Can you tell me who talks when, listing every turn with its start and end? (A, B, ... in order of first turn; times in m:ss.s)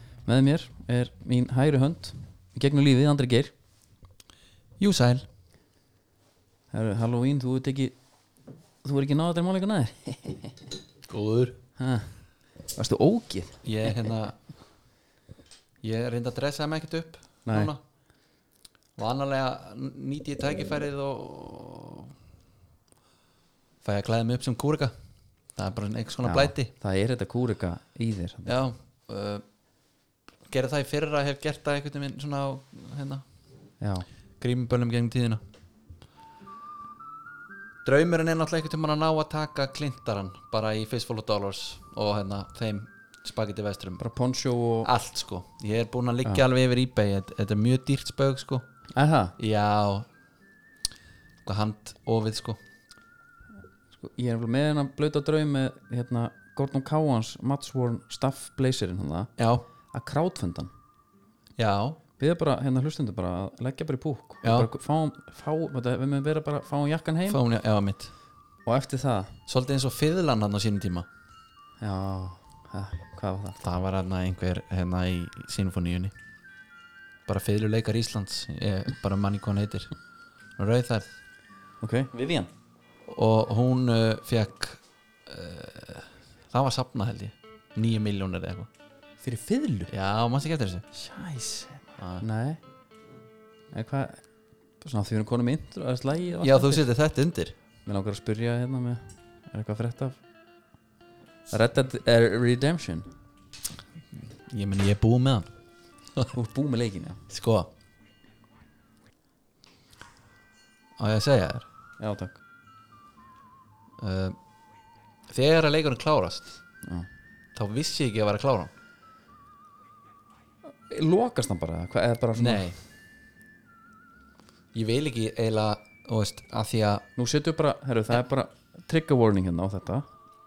0:00.2-0:03.5 A
0:04.8-0:05.2 B
0:06.7-0:07.9 A
0:08.8-0:10.6 A
0:11.1-0:11.6 B
0:11.8-0:12.1 A
0:12.7-0:14.1 A
0:13.6-0:14.4 B
0:15.8-0:17.8 B
0:17.4-0:17.7 A
0:19.0-0:22.1 B
0:23.8-0:24.9 B
0:25.5-0:26.7 B
0:26.2-0:28.6 A
0:28.4-0:29.4 B
0:30.5-0:33.2 B
0:33.8-0:34.0 A
0:34.4-0:35.4 B
0:37.8-0:44.0 B
0:44.0-0:44.9 A
0:44.8-0:48.6 B
0:48.9-0:49.3 A
0:49.4-0:50.1 B
0:51.4-0:52.6 B
0:53.9-0:59.3 A
0:59.4-0:59.6 B
0:59.9-1:00.7 A
1:01.6-1:02.0 B
1:02.2-1:07.4 A
1:04.4-1:04.7 B
1:07.3-1:08.1 B
1:08.6-1:09.4 A
1:09.5-1:11.1 B
1:11.8-1:13.6 A
1:13.6-1:16.1 B
1:17.3-1:19.9 B
1:20.6-1:21.1 B
1:21.8-1:22.5 A
1:23.1-1:28.7 B
1:29.2-1:29.9 A
1:29.9-1:30.9 B
1:31.0-1:32.6 A
1:32.0-1:32.2 B
1:33.7-1:34.2 A
1:34.8-1:36.8 A
1:36.4-1:37.6 B
1:37.8-1:40.2 A
1:41.5-1:43.1 A
1:44.5-1:45.5 B
1:46.3-1:47.2 A
1:47.3-1:47.7 B
1:51.0-1:51.7 B
1:52.0-1:52.4 A
1:54.0-1:54.4 B
1:55.3-1:56.5 B
1:57.5-1:58.7 B
2:00.8-2:02.6 A
2:02.4-2:02.8 B
2:04.7-2:07.0 B
2:07.2-2:10.0 A